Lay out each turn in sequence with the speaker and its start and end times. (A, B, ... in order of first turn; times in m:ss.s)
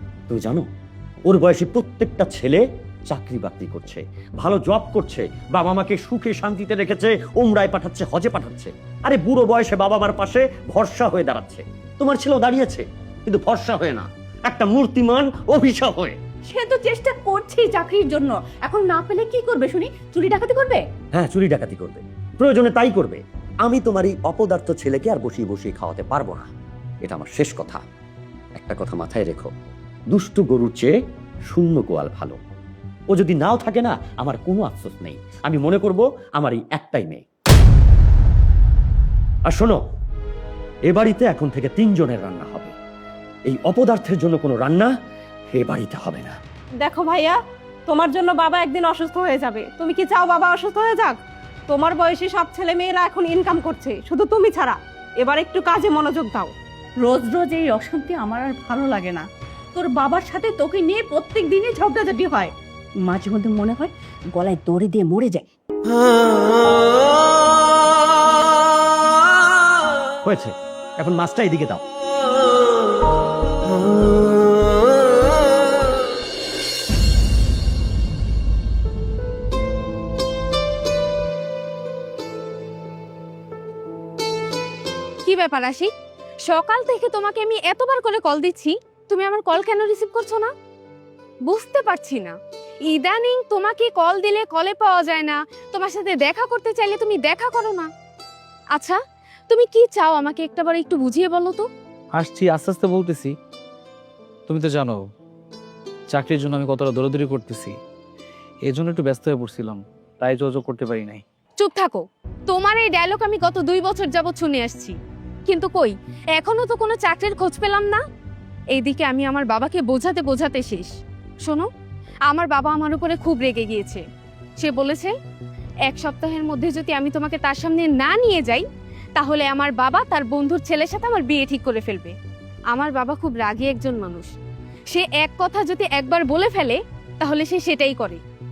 0:00.3-0:00.7 A
0:01.3-0:16.2 A
0:16.5-0:20.8 B
0:21.2-0:26.5 A
0:27.0-0:27.8 A
0:28.6-0:29.6 A
0:30.1-0:30.9 A
0:31.5-0:32.4 A
0:33.1-0:37.2 A
0:39.5-0:39.8 A
0:40.9-0:42.8 A
0:43.5-0:44.9 A
0:45.5-0:46.4 A
0:46.8-0:51.2 C
0:51.7-0:56.5 C
0:57.0-1:05.5 B
1:10.3-1:11.8 A
1:25.2-1:25.9 D
1:26.5-1:30.5 D
1:31.5-1:32.4 D
1:32.9-1:37.9 D
1:39.5-1:41.7 D
1:42.1-1:43.3 E
1:44.5-1:45.0 E
1:46.1-1:47.8 E
1:48.7-1:51.2 E
1:51.6-1:55.0 D
1:55.5-1:58.0 D
1:58.8-2:00.9 D
2:02.3-2:04.0 D
2:04.6-2:05.1 D
2:05.9-2:08.6 D
2:09.2-2:12.1 D
2:12.7-2:14.3 D
2:14.9-2:18.2 D